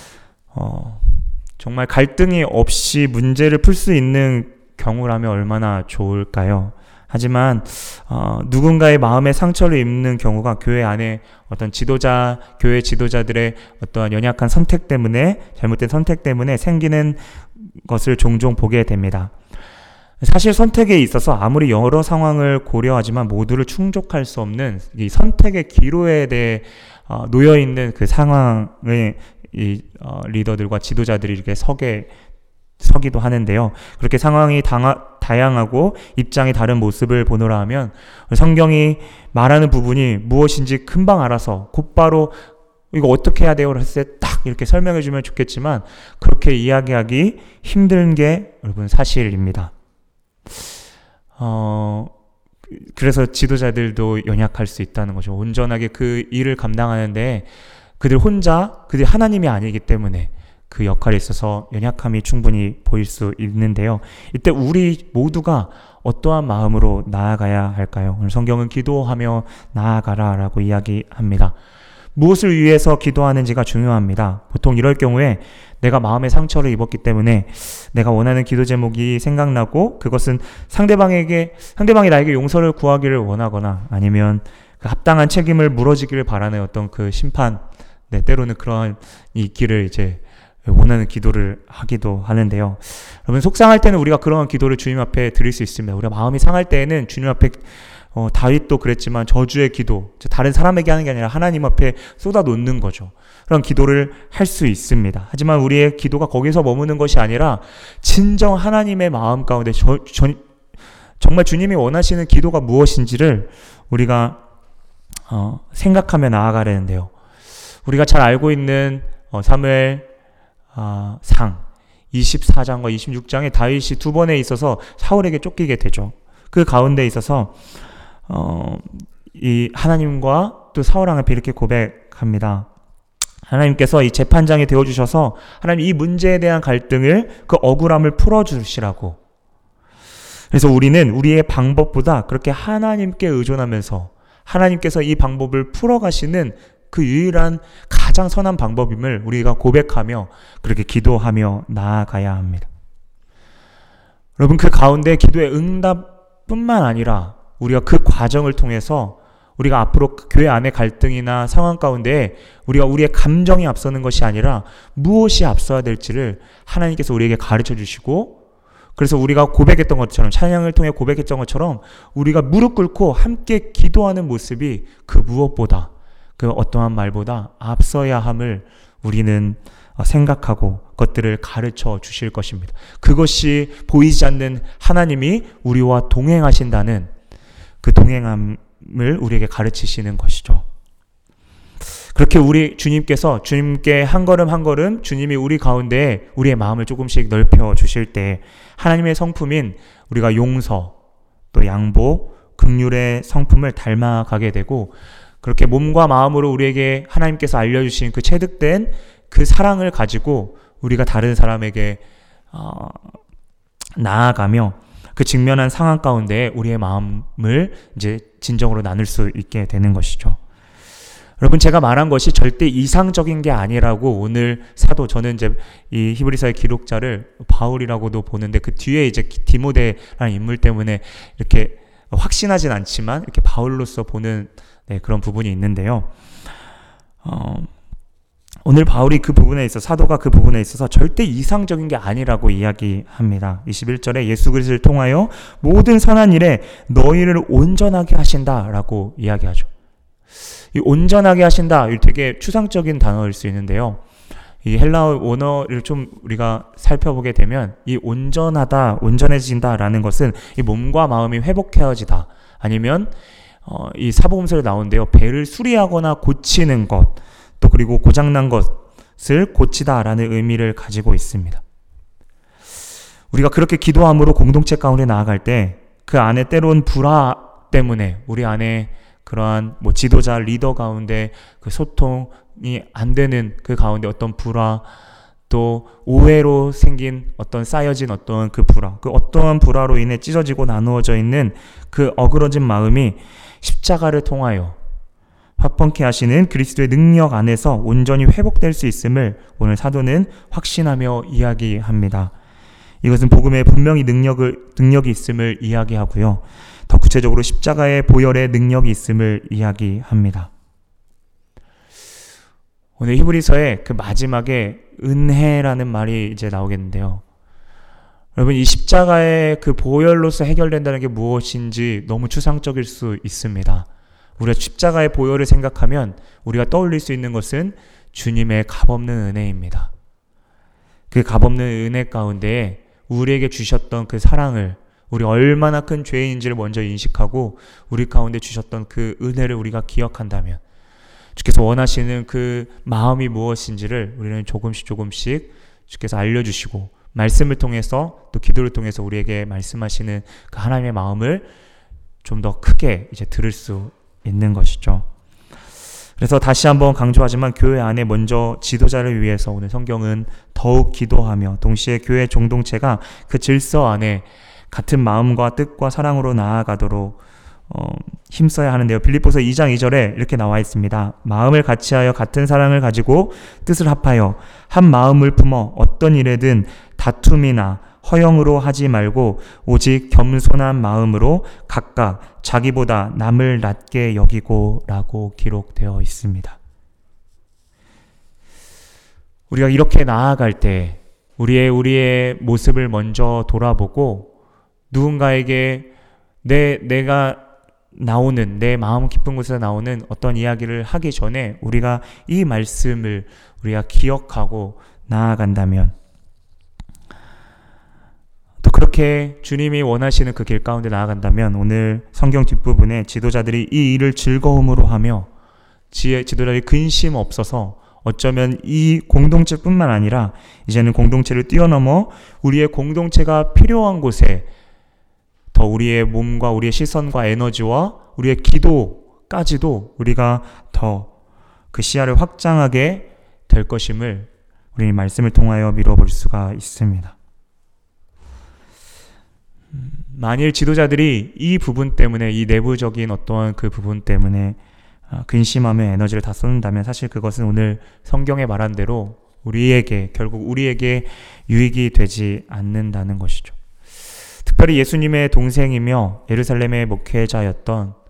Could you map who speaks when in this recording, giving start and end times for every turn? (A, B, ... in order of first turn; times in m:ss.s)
0:00.5-0:19.3 A
0:20.2-0:32.1 A
0:32.8-0:42.4 A
0:42.9-0:49.7 A
0:51.4-0:52.1 A
0:52.7-0:57.5 A
0:58.0-1:11.6 A
1:12.1-1:50.4 A
1:51.2-1:54.4 A
1:55.3-1:57.1 A
1:57.8-2:00.1 A
2:00.7-2:07.5 A
2:08.3-2:12.7 A
2:13.4-2:19.2 A
2:20.5-2:32.7 A
2:34.4-2:48.4 A
2:49.0-3:07.1 A
3:07.8-3:10.6 A
3:12.1-3:20.9 A
3:21.5-3:33.2 A
3:34.0-3:40.4 A
3:41.4-3:56.1 A
3:57.2-3:57.7 A
3:58.6-4:09.7 A
4:10.7-4:14.0 A
4:14.6-4:23.1 A
4:23.6-4:31.6 A
4:33.3-4:44.9 A
4:45.5-4:54.8 A
4:55.6-5:02.3 A
5:03.0-5:10.5 A
5:13.0-5:17.2 A
5:18.4-5:23.9 A
5:24.4-5:29.9 A
5:31.1-5:40.6 A
5:41.4-5:51.5 A
5:52.2-5:55.0 A
5:56.2-6:07.2 A
6:07.7-6:26.6 A
6:29.5-6:34.3 A
6:34.9-6:35.9 A
6:36.4-6:37.4 A
6:37.9-6:45.9 A
6:48.6-6:55.3 A
6:55.9-7:04.5 A
7:05.5-7:11.1 A
7:11.7-7:17.1 A
7:19.7-7:24.6 A
7:25.1-7:33.5 A
7:34.4-7:37.9 A